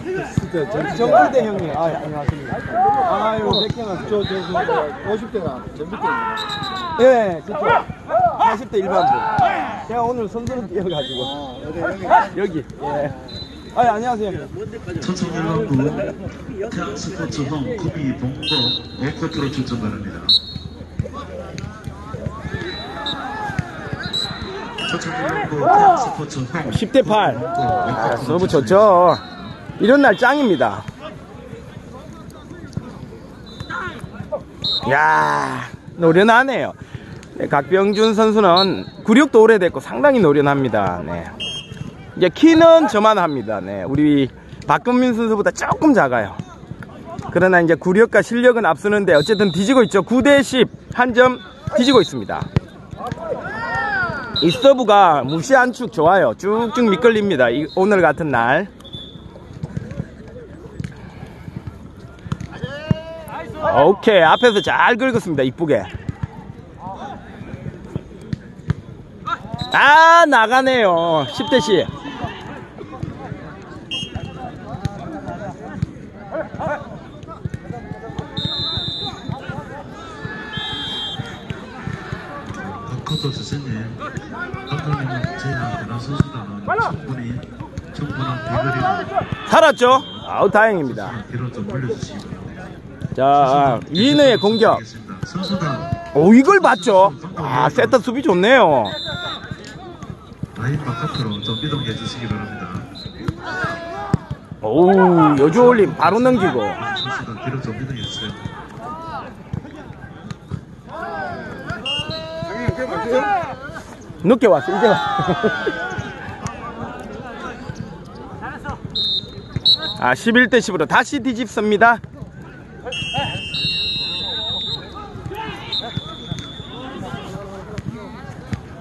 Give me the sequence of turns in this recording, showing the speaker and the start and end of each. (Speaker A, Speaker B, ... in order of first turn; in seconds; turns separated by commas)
Speaker A: 0.2-4.3, Speaker A: 7.0-7.9, Speaker A: 8.4-11.4, Speaker A: 12.2-13.2, Speaker A: 13.7-14.5, Speaker B: 15.0-20.4, Speaker B: 24.8-29.6, Speaker A: 26.6-30.9, Speaker A: 34.8-36.8, Speaker A: 37.4-41.3, Speaker A: 42.1-46.4, Speaker A: 47.3-52.5, Speaker A: 54.4-58.7, Speaker A: 63.6-65.9, Speaker A: 69.7-71.9, Speaker B: 82.5-84.0, Speaker B: 84.7-89.2, Speaker A: 89.5-91.1, Speaker B: 89.9-92.7, Speaker A: 93.1-94.8, Speaker B: 93.3-98.0, Speaker A: 96.1-99.0, Speaker B: 100.5-102.9, Speaker A: 104.6-106.8, Speaker B: 105.4-108.5, Speaker A: 114.2-115.7, Speaker A: 120.0-122.0